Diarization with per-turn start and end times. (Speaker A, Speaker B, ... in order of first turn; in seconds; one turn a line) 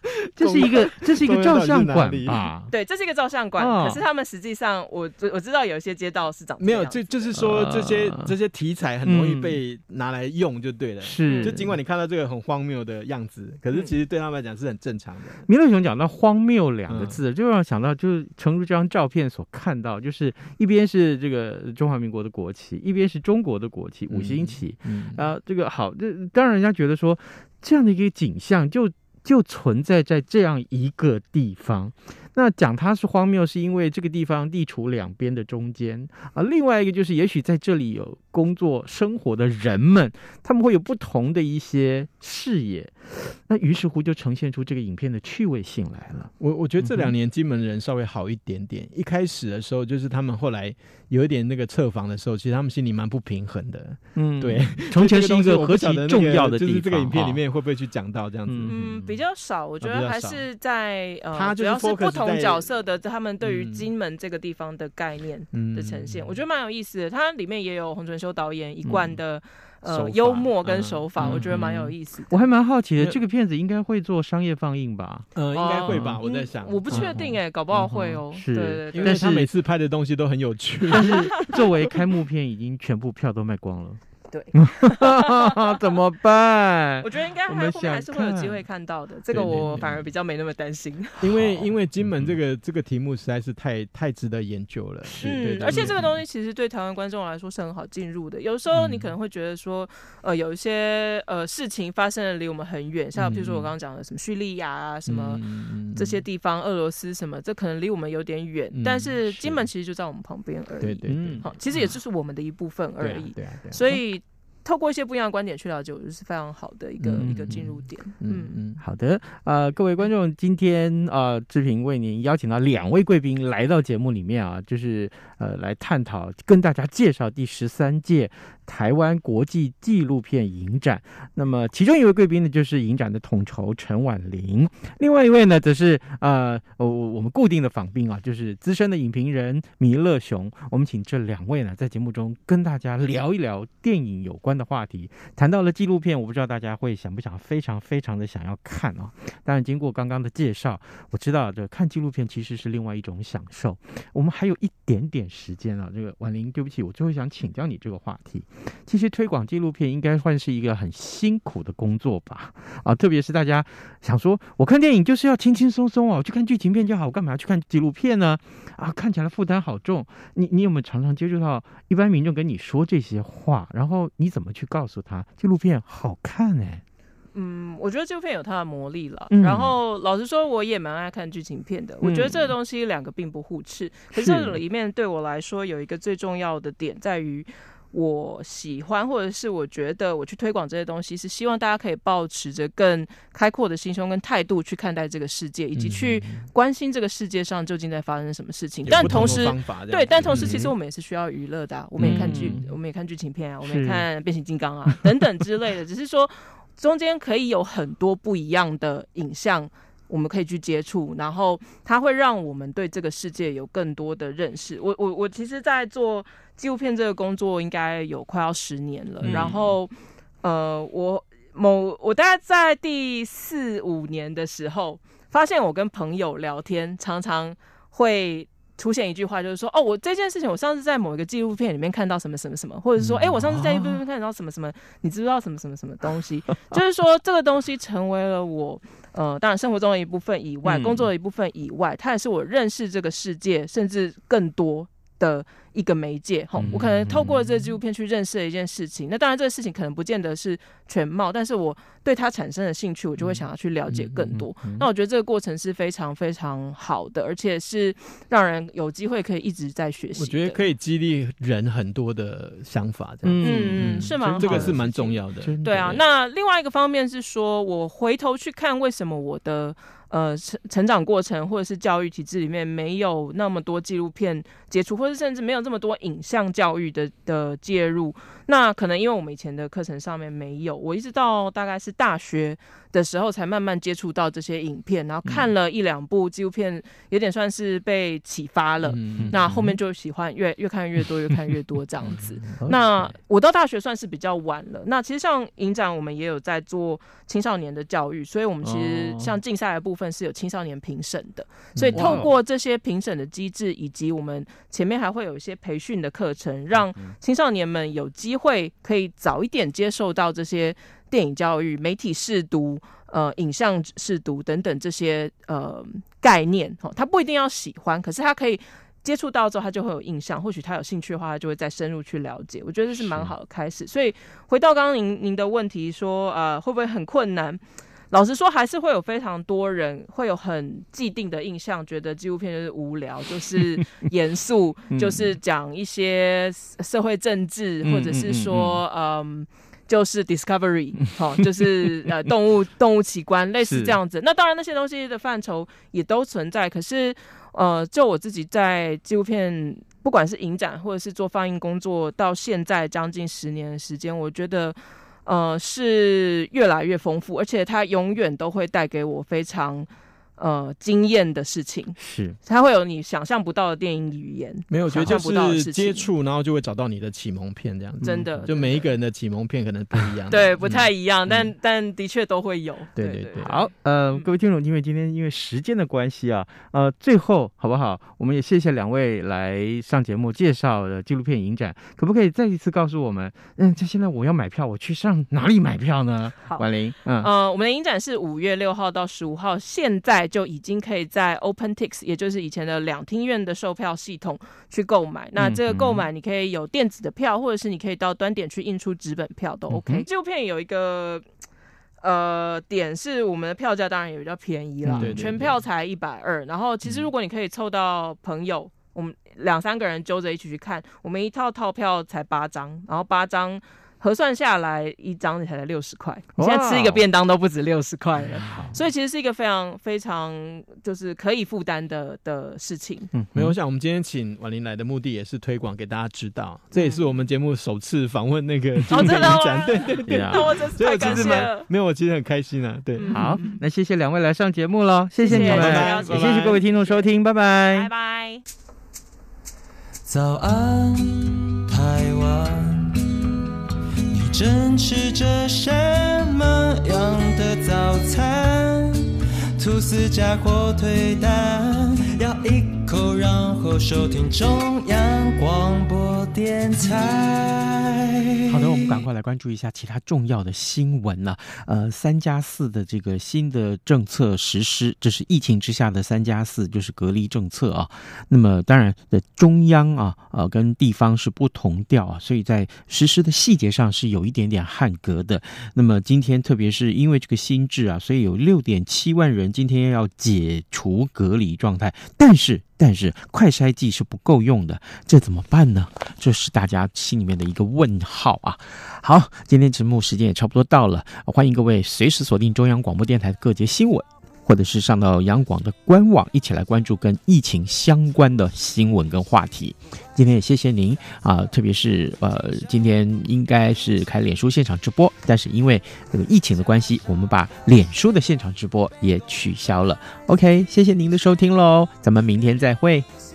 Speaker A: 0.4-2.5
Speaker B: 0.4-2.7
Speaker C: 2.7-7.4
Speaker B: 3.6-4.0
Speaker A: 6.6-15.4
Speaker B: 7.3-8.3
Speaker B: 9.0-9.6
Speaker B: 11.0-11.7
Speaker C: 11.3-11.6
Speaker B: 15.5-47.1
Speaker A: 16.9-17.2
Speaker A: 24.1-25.2
Speaker A: 46.4-59.2
Speaker B: 54.1-57.4
Speaker B: 58.5-58.7
Speaker C: 58.7-72.3
Speaker A: 59.8-60.5
Speaker A: 61.3-62.7
Speaker A: 63.4-63.9
Speaker A: 65.5-66.4
Speaker A: 69.8-71.5
Speaker B: 71.2-75.3
Speaker A: 75.3-77.2
Speaker C: 75.5-79.3
Speaker B: 75.9-76.2
Speaker B: 76.9-79.5
Speaker A: 78.9-81.6
Speaker B: 80.9-84.0
Speaker C: 80.9-81.5
Speaker C: 84.3-85.8
Speaker B: 84.5-88.6
Speaker C: 87.0-91.4
Speaker A: 89.3-90.1
Speaker A: 91.2-96.1
Speaker B: 91.4-92.3
Speaker C: 95.2-105.4
Speaker B: 95.7-96.0
Speaker A: 103.2-103.7
Speaker A: 105.1-106.2
Speaker C: 105.9-118.5
Speaker A: 108.7-109.7
Speaker A: 110.8-111.9
Speaker B: 111.1-111.4
Speaker A: 113.0-114.0
Speaker A: 117.0-117.7
Speaker B: 117.2-117.7
Speaker A: 118.2-118.8
Speaker B: 118.8-176.8
Speaker C: 177.3-260.6
Speaker B: 179.3-179.7
Speaker B: 182.0-182.5
Speaker B: 184.1-184.6
Speaker A: 195.8-196.4
Speaker A: 198.8-200.7
Speaker A: 202.0-202.6
Speaker B: 202.0-202.7
Speaker B: 203.6-204.1
Speaker A: 219.2-219.5
Speaker B: 219.2-219.7
Speaker B: 233.0-234.0
Speaker B: 240.6-241.1
Speaker B: 246.6-247.6
Speaker B: 253.9-254.8
Speaker A: 260.2-265.6
Speaker B: 263.2-264.8
Speaker C: 263.4-366.1
Speaker B: 265.4-266.0
Speaker A: 288.8-289.7
Speaker B: 289.2-289.5
Speaker B: 292.6-293.0
Speaker A: 301.8-302.3
Speaker B: 301.9-302.3
Speaker B: 323.0-323.3
Speaker B: 334.9-335.3
Speaker B: 337.8-338.8
Speaker B: 343.6-344.0
Speaker B: 362.0-362.4
Speaker A: 364.7-370.5
Speaker C: 368.0-368.9
Speaker C: 370.3-374.2
Speaker B: 370.6-371.5
Speaker A: 372.9-373.6
Speaker B: 373.4-387.3
Speaker C: 387.2-401.2
Speaker B: 395.4-396.1
Speaker B: 399.7-400.1
Speaker C: 402.0-423.1
Speaker B: 404.8-405.5
Speaker A: 404.9-405.6
Speaker B: 416.4-417.1
Speaker B: 418.2-418.7
Speaker B: 423.1-423.6
Speaker A: 423.3-433.3
Speaker C: 426.7-427.0
Speaker C: 428.9-431.7
Speaker B: 430.1-431.5
Speaker C: 433.0-433.6
Speaker B: 433.1-437.9
Speaker C: 435.2-437.0
Speaker A: 435.2-436.6
Speaker C: 437.7-438.4
Speaker D: 440.0-443.1
Speaker D: 444.1-459.0
Speaker B: 458.5-513.1